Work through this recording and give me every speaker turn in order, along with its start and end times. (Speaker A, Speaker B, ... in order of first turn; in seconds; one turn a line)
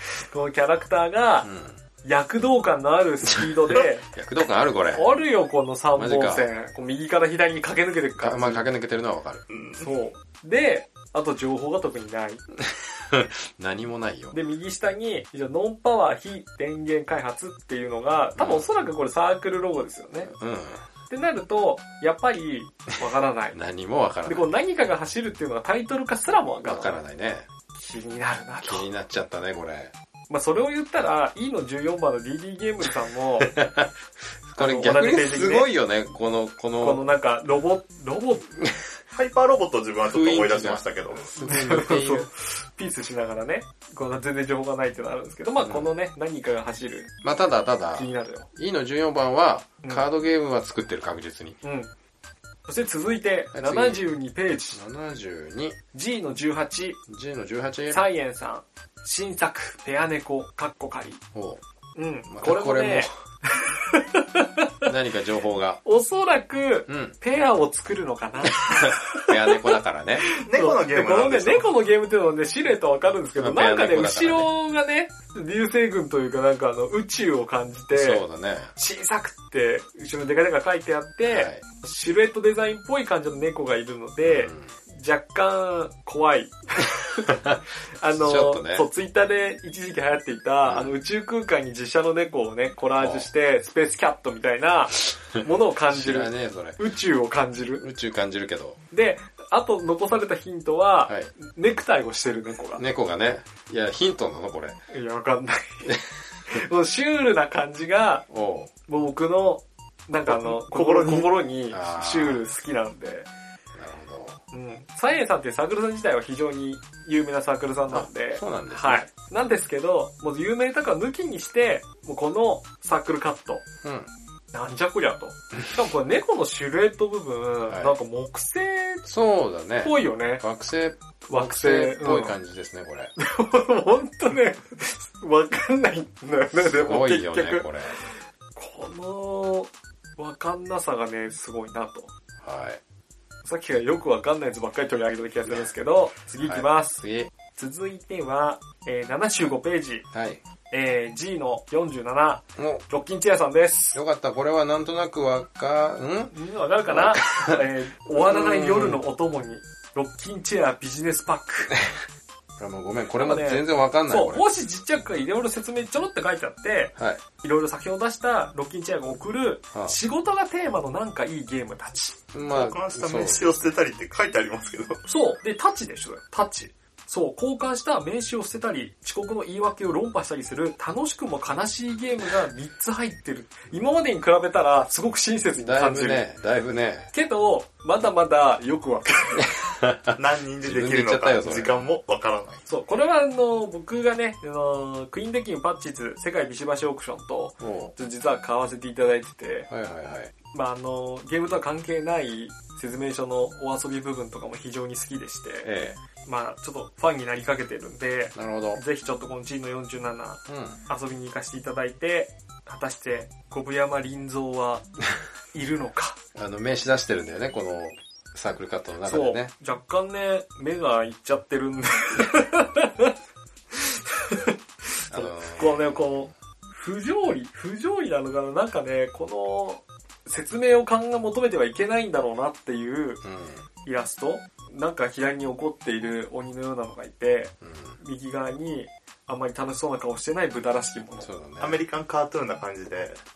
Speaker A: 0.2-1.5
Speaker B: 1.4-1.8
Speaker A: 2.0-4.1
Speaker B: 3.3-5.1
Speaker A: 4.9-8.7
Speaker B: 5.9-6.5
Speaker B: 8.2-9.4
Speaker C: 9.5-9.8
Speaker A: 9.8-12.4
Speaker B: 12.6-14.3
Speaker A: 14.3-20.3
Speaker B: 18.4-18.7
Speaker B: 20.2-20.9
Speaker A: 21.1-23.6
Speaker B: 23.5-24.5
Speaker A: 24.2-27.0
Speaker B: 26.6-27.5
Speaker A: 27.7-28.9
Speaker B: 28.6-29.9
Speaker A: 30.3-33.5
Speaker B: 33.4-33.9
Speaker B: 34.5-37.0
Speaker A: 34.6-35.7
Speaker A: 36.8-38.5
Speaker C: 39.1-41.3
Speaker B: 40.1-42.3
Speaker A: 41.3-47.1
Speaker B: 45.6-45.9
Speaker B: 47.2-51.6
Speaker A: 47.9-48.5
Speaker A: 51.6-51.9
Speaker A: 52.7-54.8
Speaker B: 53.5-54.1
Speaker B: 54.7-55.8
Speaker A: 55.9-57.0
Speaker B: 57.1-58.0
Speaker A: 57.9-61.2
Speaker B: 61.3-61.6
Speaker A: 62.0-64.9
Speaker B: 62.3-63.1
Speaker B: 64.8-65.8
Speaker A: 65.8-78.2
Speaker B: 66.9-67.2
Speaker B: 68.5-70.2
Speaker C: 70.4-71.7
Speaker B: 73.4-74.5
Speaker B: 77.9-78.7
Speaker A: 78.7-87.4
Speaker B: 81.2-81.6
Speaker B: 84.2-84.7
Speaker B: 87.3-88.9
Speaker A: 88.0-97.8
Speaker B: 90.7-90.9
Speaker B: 92.9-93.3
Speaker B: 95.9-96.8
Speaker B: 97.8-98.8
Speaker A: 98.9-102.8
Speaker B: 101.0-101.3
Speaker B: 102.8-104.8
Speaker A: 104.9-105.9
Speaker A: 106.5-108.2
Speaker B: 108.3-108.7
Speaker A: 108.9-113.3
Speaker C: 110.3-111.3
Speaker B: 111.7-112.4
Speaker B: 113.8-114.4
Speaker A: 114.5-123.6
Speaker B: 117.9-119.0
Speaker B: 123.8-124.1
Speaker A: 124.5-129.1
Speaker B: 127.7-128.0
Speaker B: 129.1-133.1
Speaker A: 129.8-130.4
Speaker A: 131.3-132.4
Speaker A: 133.2-142.1
Speaker B: 136.5-138.0
Speaker B: 142.4-142.8
Speaker A: 143.4-147.0
Speaker B: 145.4-147.3
Speaker A: 147.5-150.1
Speaker B: 150.1-150.4
Speaker A: 150.7-154.0
Speaker B: 152.6-152.8
Speaker B: 153.9-156.3
Speaker A: 156.3-161.7
Speaker B: 156.9-157.6
Speaker B: 158.1-159.0
Speaker B: 161.7-162.0
Speaker B: 162.6-164.4
Speaker A: 163.2-172.2
Speaker B: 166.9-167.2
Speaker B: 172.3-173.7
Speaker C: 172.5-175.0
Speaker A: 175.1-186.2
Speaker B: 185.6-187.1
Speaker A: 187.1-189.6
Speaker B: 189.6-191.7
Speaker C: 190.1-192.6
Speaker A: 192.7-199.7
Speaker B: 197.6-197.9
Speaker B: 199.7-200.3
Speaker A: 200.5-205.7
Speaker B: 205.6-206.0
Speaker A: 206.2-214.8
Speaker B: 208.3-208.8
Speaker B: 210.5-210.8
Speaker A: 215.5-216.2
Speaker B: 216.3-219.5
Speaker A: 219.0-223.1
Speaker A: 223.7-233.2
Speaker B: 225.1-226.3
Speaker B: 233.2-233.6
Speaker A: 233.8-241.3
Speaker B: 237.6-238.0
Speaker B: 241.2-241.8
Speaker C: 241.6-243.2